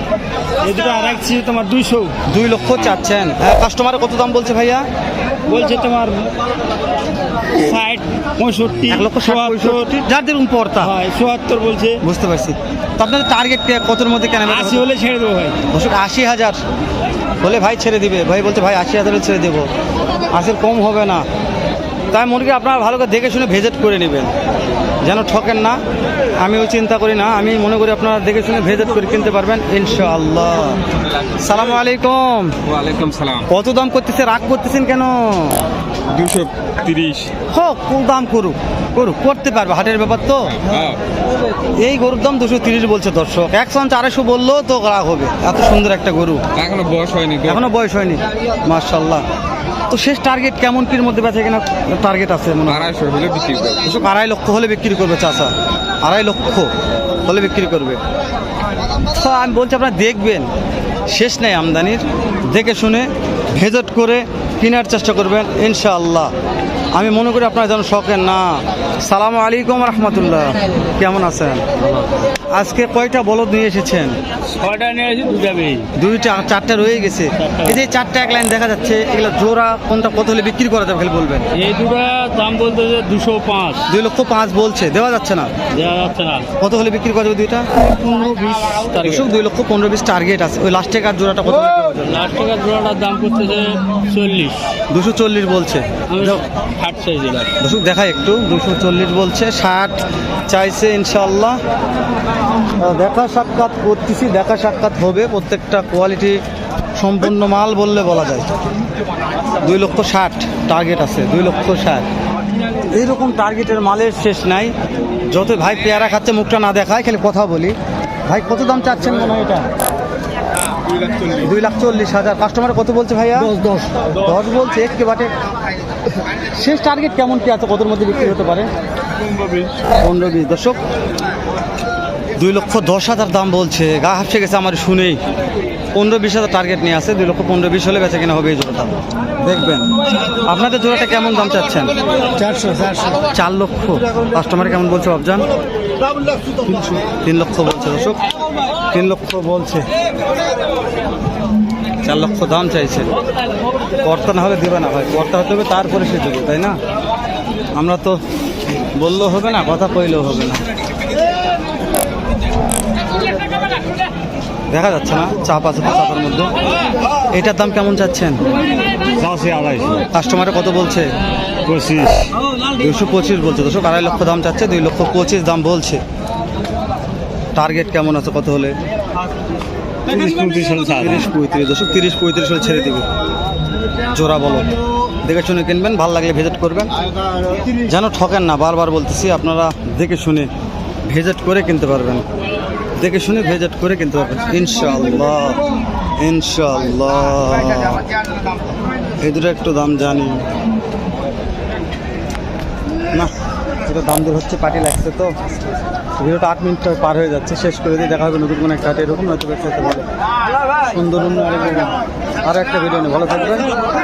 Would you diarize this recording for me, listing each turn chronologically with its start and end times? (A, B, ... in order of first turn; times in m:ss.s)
0:00.6-0:02.2 A
0:02.3-0:04.8 B
0:05.5-0:06.3 A
0:07.5-0:09.9 A
0:08.9-0:10.9 B
0:10.8-0:12.0 A
0:12.0-0:14.9 B
0:14.5-0:15.6 A
0:15.7-0:16.6 B
0:17.4-0:19.7 B
0:20.3-0:21.2 B
0:22.1-0:24.3 B
0:25.0-0:25.8 B
0:26.4-0:30.8 B
0:31.4-0:32.6 B
0:32.7-0:33.5 C
0:33.5-0:35.6 B
0:36.1-0:37.3 C
0:37.5-0:40.6 B
0:40.6-0:41.0 C
0:41.8-0:46.4 B
0:46.6-0:47.6 C
0:47.4-0:49.2 B
0:49.9-0:52.9 B
0:52.7-0:53.8 C
0:53.8-0:56.7 B
0:57.2-0:58.0 B
0:59.1-1:00.5 B
1:01.1-1:06.3 B
1:06.9-1:14.2 B
1:14.6-1:15.9 A
1:16.0-1:21.5 B
1:17.4-1:17.9 A
1:21.5-1:23.9 A
1:23.9-1:25.5 B
1:25.7-1:26.5 A
1:26.6-1:27.7 B
1:27.8-1:29.3 A
1:29.0-1:32.2 B
1:32.0-1:34.7 A
1:34.9-1:36.4 B
1:36.1-1:37.5 A
1:37.6-1:41.6 B
1:42.8-1:46.4 B
1:47.0-1:48.5 B
1:49.6-1:52.1 B
1:52.9-1:54.7 B
1:55.3-1:57.8 B
1:58.3-1:59.7 B
2:01.0-2:01.3 A
2:01.3-2:03.6 B
2:03.5-2:04.1 A
2:04.2-2:05.3 B
2:06.6-2:08.7 B
2:09.2-2:09.7 A
2:10.0-2:10.8 B
2:12.4-2:15.2 B
2:15.9-2:22.0 B
2:22.5-2:23.2 A
2:23.3-2:25.5 B
2:26.7-2:28.2 B
2:28.9-2:29.9 B
2:32.0-2:33.1 B
2:34.0-2:36.8 B
2:37.8-2:38.2 B
2:38.9-2:40.6 B
2:44.7-2:46.5 B
2:47.3-2:48.4 B
2:49.2-2:50.1 A
2:50.1-2:51.1 B
2:51.6-2:52.3 A
2:52.7-2:56.0 B
2:57.6-2:58.8 B
3:00.1-3:01.3 A
3:00.8-3:03.0 B
3:04.1-3:04.7 B
3:05.2-3:06.9 B
3:07.7-3:10.5 B
3:11.1-3:12.2 B
3:13.0-3:15.6 B
3:16.2-3:18.0 B
3:19.2-3:20.4 B
3:23.9-3:25.3 B
3:26.2-3:30.1 B
3:30.9-3:33.7 B